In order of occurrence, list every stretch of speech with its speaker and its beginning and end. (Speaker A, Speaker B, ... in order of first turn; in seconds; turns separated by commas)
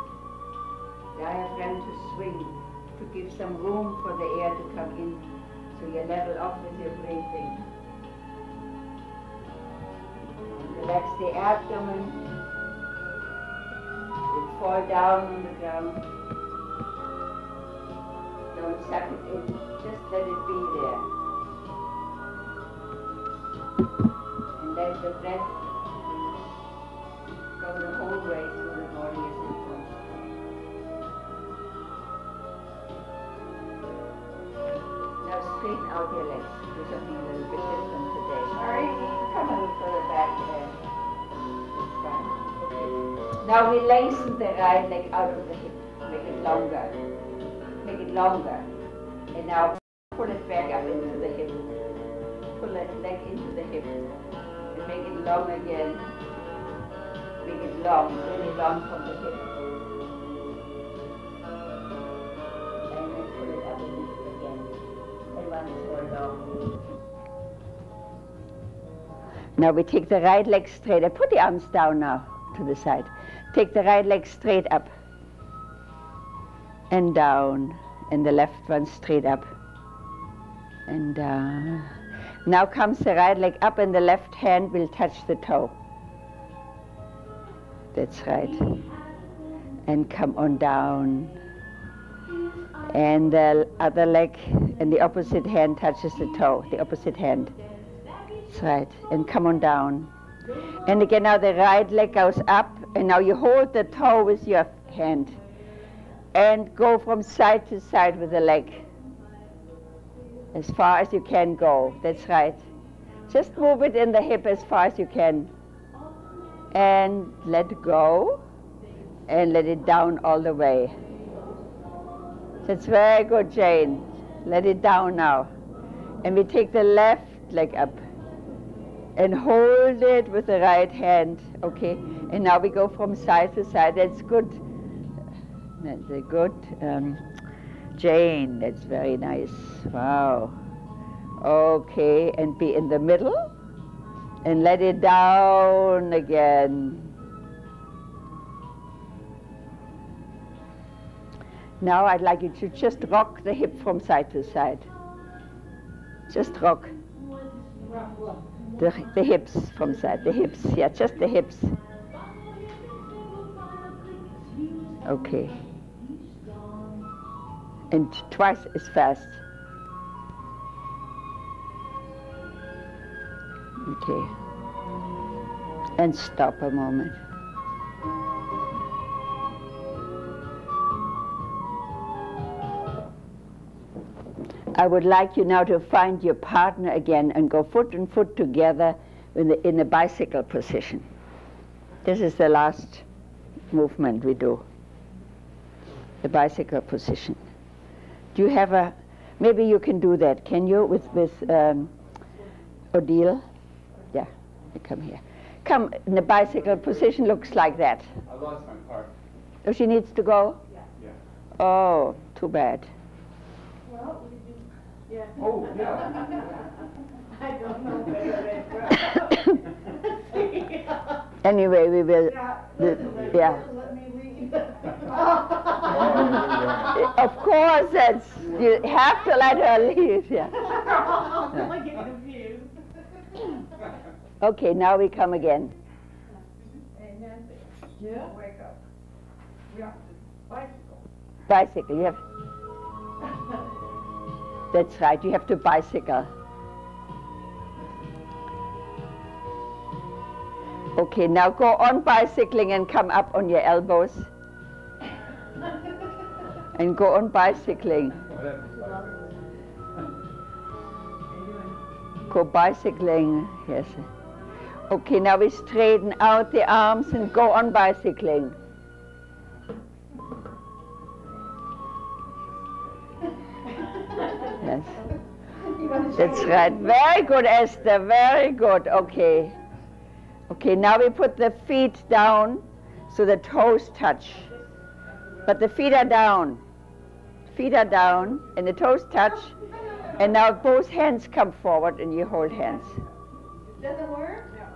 Speaker A: 1.1-7.6, Speaker A: 10.5-12.2, Speaker A: 14.3-16.1, Speaker A: 18.5-21.1, Speaker A: 24.6-25.7, Speaker A: 27.6-30.1, Speaker A: 35.2-40.8, Speaker B: 38.6-39.2, Speaker A: 41.7-47.0, Speaker A: 47.8-48.7, Speaker A: 49.3-51.6, Speaker A: 52.5-54.0, Speaker A: 54.7-56.1, Speaker A: 57.4-59.5, Speaker A: 62.9-64.7, Speaker A: 65.3-66.8, Speaker A: 69.6-74.9, Speaker A: 76.9-79.5, Speaker A: 80.9-81.9, Speaker A: 82.5-85.7, Speaker A: 87.9-88.8, Speaker A: 89.9-91.4, Speaker A: 92.9-97.6, Speaker A: 98.5-100.1, Speaker A: 100.9-105.4, Speaker A: 106.3-108.9, Speaker A: 110.5-112.6, Speaker A: 113.3-115.5, Speaker A: 116.7-118.4, Speaker A: 119.3-120.9, Speaker A: 122.7-125.5, Speaker A: 126.2-128.0, Speaker A: 129.2-134.6, Speaker A: 135.8-137.2, Speaker A: 138.0-140.6, Speaker A: 141.4-143.5, Speaker A: 144.4-147.1, Speaker A: 151.8-154.9, Speaker A: 156.3-157.0, Speaker B: 157.9-158.4, Speaker A: 158.8-161.8, Speaker A: 165.0-165.6, Speaker A: 167.9-169.4, Speaker A: 173.8-174.3, Speaker A: 176.0-177.2, Speaker A: 184.7-191.1, Speaker A: 192.1-193.0, Speaker A: 193.7-194.6, Speaker A: 196.2-197.4, Speaker A: 198.3-201.9, Speaker A: 202.9-203.4, Speaker A: 204.1-208.1, Speaker C: 208.2-209.1, Speaker A: 209.7-210.6, Speaker A: 211.6-212.9, Speaker B: 213.9-214.6, Speaker B: 215.1-215.6, Speaker C: 215.4-216.3, Speaker B: 217.3-219.6, Speaker B: 220.2-221.0, Speaker A: 221.4-223.6, Speaker B: 222.3-226.3, Speaker C: 225.8-227.1, Speaker A: 226.9-230.7, Speaker B: 230.7-232.7, Speaker A: 234.4-235.7, Speaker B: 236.9-238.8, Speaker B: 239.7-241.0, Speaker A: 241.5-242.2, Speaker A: 244.7-246.3, Speaker A: 251.0-254.3, Speaker A: 256.8-258.2, Speaker C: 258.2-259.3, Speaker B: 261.3-261.7, Speaker A: 262.3-264.1, Speaker A: 264.9-268.6, Speaker A: 274.6-275.0, Speaker B: 275.8-276.8, Speaker A: 276.1-279.6, Speaker A: 280.5-284.5, Speaker A: 285.5-286.6, Speaker A: 287.5-289.6, Speaker A: 290.2-293.0, Speaker B: 293.8-294.6